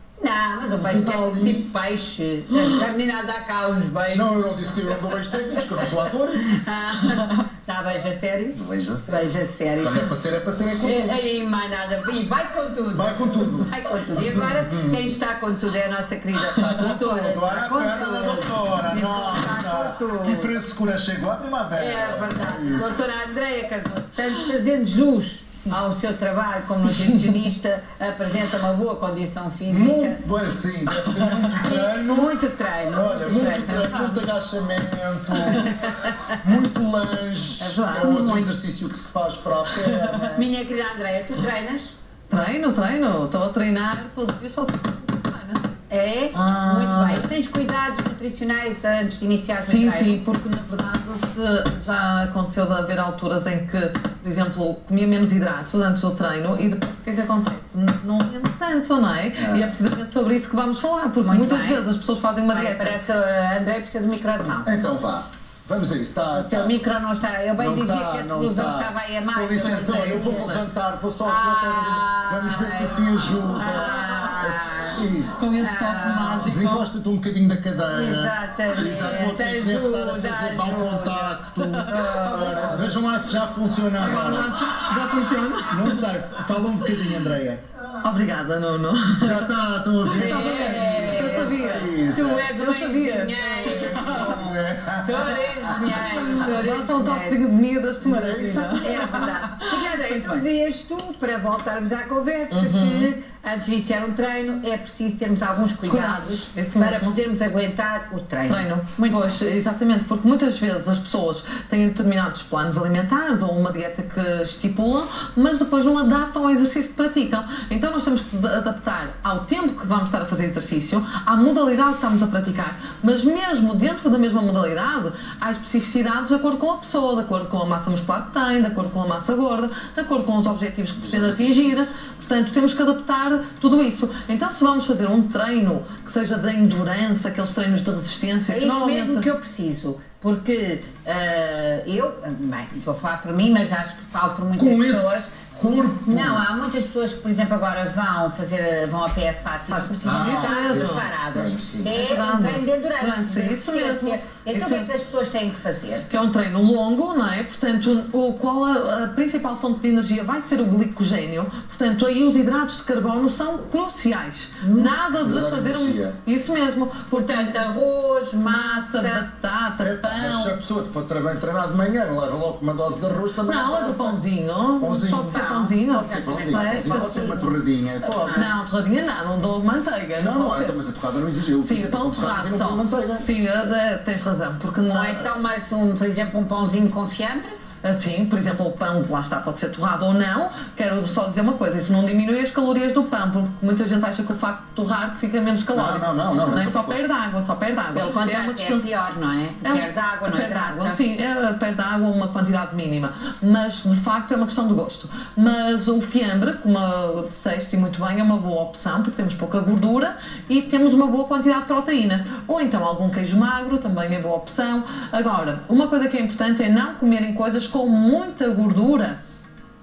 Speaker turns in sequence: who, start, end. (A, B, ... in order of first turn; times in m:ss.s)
0:00.2-0:10.1 A
0:00.8-0:01.6 B
0:04.1-0:06.5 B
0:08.5-0:11.2 B
0:10.8-0:20.5 A
0:12.9-0:15.2 B
0:16.5-0:23.0 B
0:21.7-0:30.2 A
0:29.7-0:35.7 B
0:31.5-0:34.2 A
0:36.4-0:40.5 B
0:37.6-0:38.6 A
0:39.7-0:40.3 C
0:40.3-0:41.9 A
0:42.3-0:45.7 C
0:45.9-0:50.2 A
0:46.3-0:47.3 B
0:49.6-1:03.0 C
0:59.4-0:59.7 B
1:01.2-1:01.8 A
1:02.5-1:04.7 A
1:04.6-1:06.7 B
1:06.3-1:10.5 A
1:07.6-1:15.4 B
1:09.6-1:10.6 C
1:11.2-1:15.0 A
1:15.4-1:16.8 C
1:15.6-1:16.5 A
1:16.4-1:24.6 B
1:17.9-1:21.4 A
1:21.6-1:21.9 C
1:21.9-1:23.0 A
1:24.0-1:26.1 C
1:25.7-1:27.6 B
1:28.0-1:29.5 C
1:29.2-1:32.5 B
1:30.1-1:37.4 A
1:30.1-1:34.4 C
1:33.7-1:35.7 B
1:35.9-1:40.4 C
1:38.0-1:39.0 B
1:38.8-1:49.4 A
1:42.5-1:43.1 C
1:45.8-1:47.2 C
1:48.5-2:19.3 C
2:11.0-2:11.7 B
2:18.5-2:36.1 A
2:24.6-2:26.4 B
2:29.7-2:31.1 C
2:30.0-2:32.0 B
2:31.9-2:34.9 C
2:36.1-2:47.6 C
2:44.6-2:44.9 A
2:45.2-2:46.2 B
2:47.1-2:49.2 A
2:48.4-2:50.6 C
2:49.8-2:54.2 B
2:53.4-2:57.3 C
2:54.8-2:55.4 B
2:55.3-2:58.5 A
2:55.9-2:58.4 B
2:58.3-3:00.8 C
3:00.2-3:03.3 B
3:01.6-3:05.3 C
3:04.9-3:07.6 A
3:07.8-3:18.8 C
3:15.7-3:17.0 B
3:17.9-3:21.0 A
3:19.6-3:39.2 C